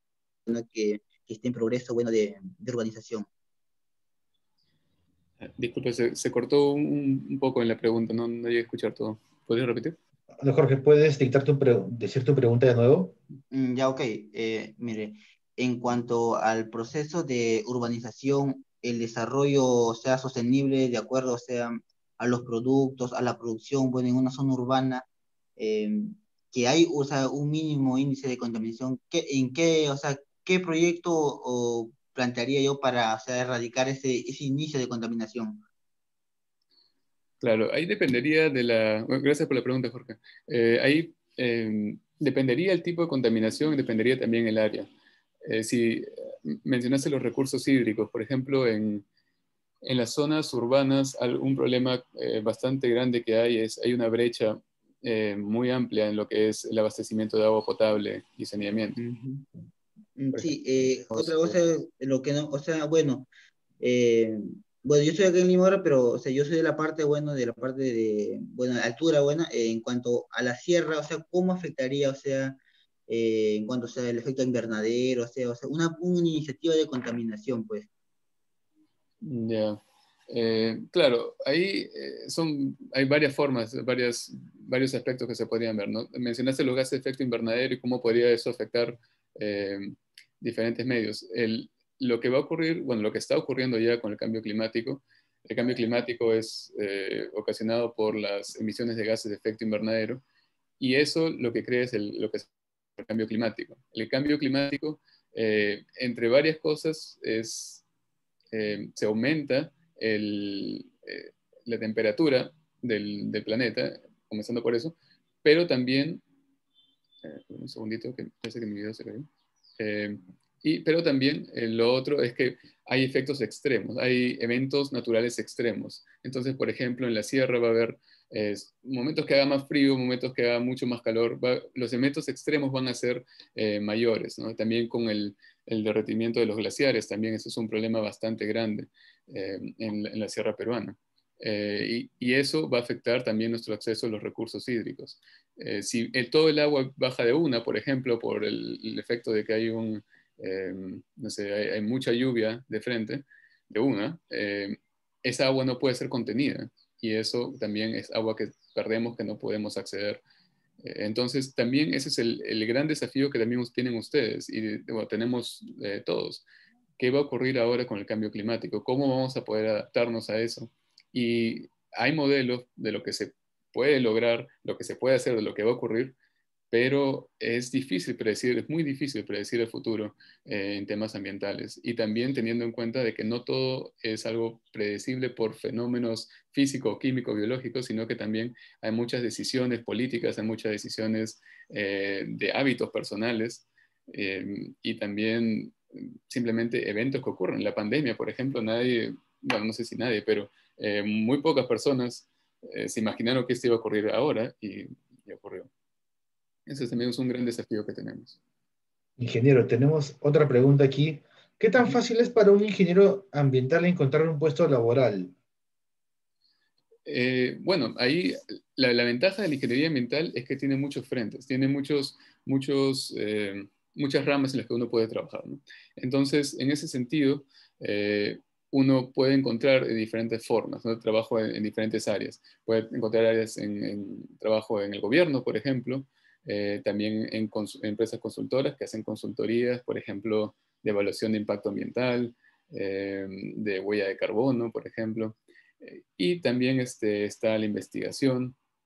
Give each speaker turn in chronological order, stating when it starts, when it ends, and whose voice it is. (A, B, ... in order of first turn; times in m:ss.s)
0:00.5-0:03.3 A
0:05.4-0:10.0 B
0:10.4-0:13.2 C
0:13.5-0:25.0 A
0:25.6-0:35.6 A
0:37.4-0:44.9 B
0:45.4-0:49.0 B
0:49.8-0:59.0 B
0:59.0-0:59.5 A
1:00.2-1:03.3 A
1:00.3-1:01.6 B
1:03.8-1:17.9 A
1:19.2-1:40.2 B
1:40.8-1:47.8 B
1:48.5-1:56.2 B
1:57.2-2:40.2 B
2:40.8-2:46.4 B
2:47.0-2:56.1 B
2:56.7-3:25.7 B
3:26.7-3:28.4 B
3:29.2-3:35.3 C
3:37.0-4:08.6 B